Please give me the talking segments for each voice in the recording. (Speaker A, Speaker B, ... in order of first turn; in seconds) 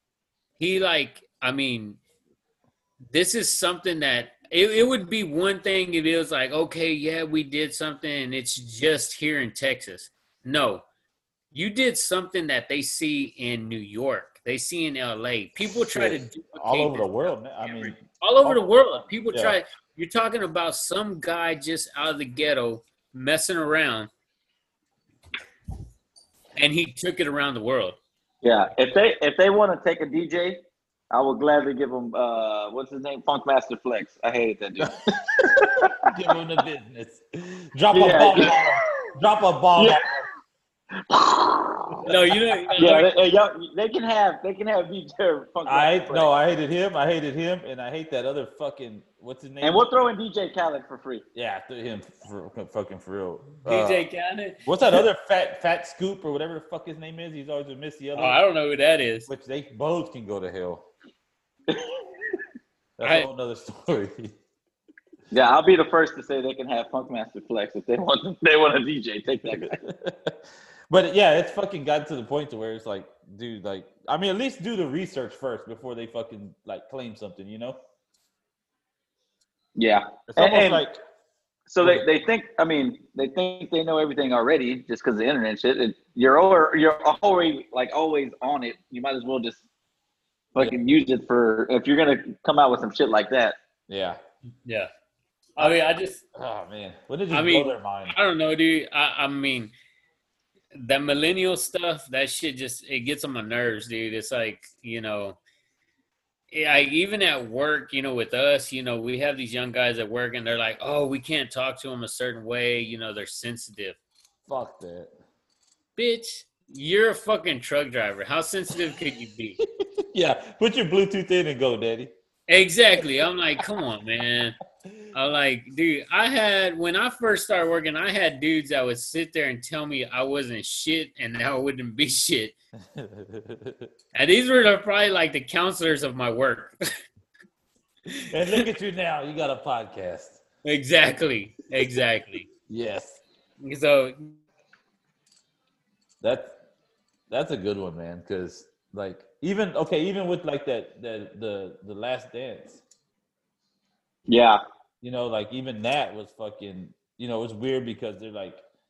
Speaker A: 0.6-2.0, 3.1-10.8, 11.5-17.1, 17.6-24.1, 26.6-28.0, 42.0-43.1, 53.6-54.7, 58.1-59.3, 94.6-94.9, 95.5-96.2, 97.3-99.7, 100.7-105.4, 106.5-114.0, 116.0-119.6, 122.5-124.6, 125.1-132.5, 134.1-136.8, 138.1-138.6, 140.6-142.5, 143.6-144.3
Speaker B: 15.7-18.6, 19.3-19.6, 34.8-40.1, 41.9-42.8, 45.6-49.9, 51.3-54.0, 54.6-58.4, 59.3-60.8, 63.0-64.3, 69.5-77.8, 80.3-81.0, 93.9-94.2, 96.3-98.1, 114.5-115.1, 119.8-122.1, 132.9-133.9, 138.3-140.4, 142.7-143.2, 146.2-146.6, 147.3-152.8, 155.0-158.6
Speaker C: 28.4-36.0, 37.9-39.0, 39.8-40.0, 41.1-42.0, 42.8-46.3, 49.6-51.2, 61.7-62.0, 65.3-69.8, 79.8-80.8, 81.7-89.6, 90.5-93.6, 154.3-154.6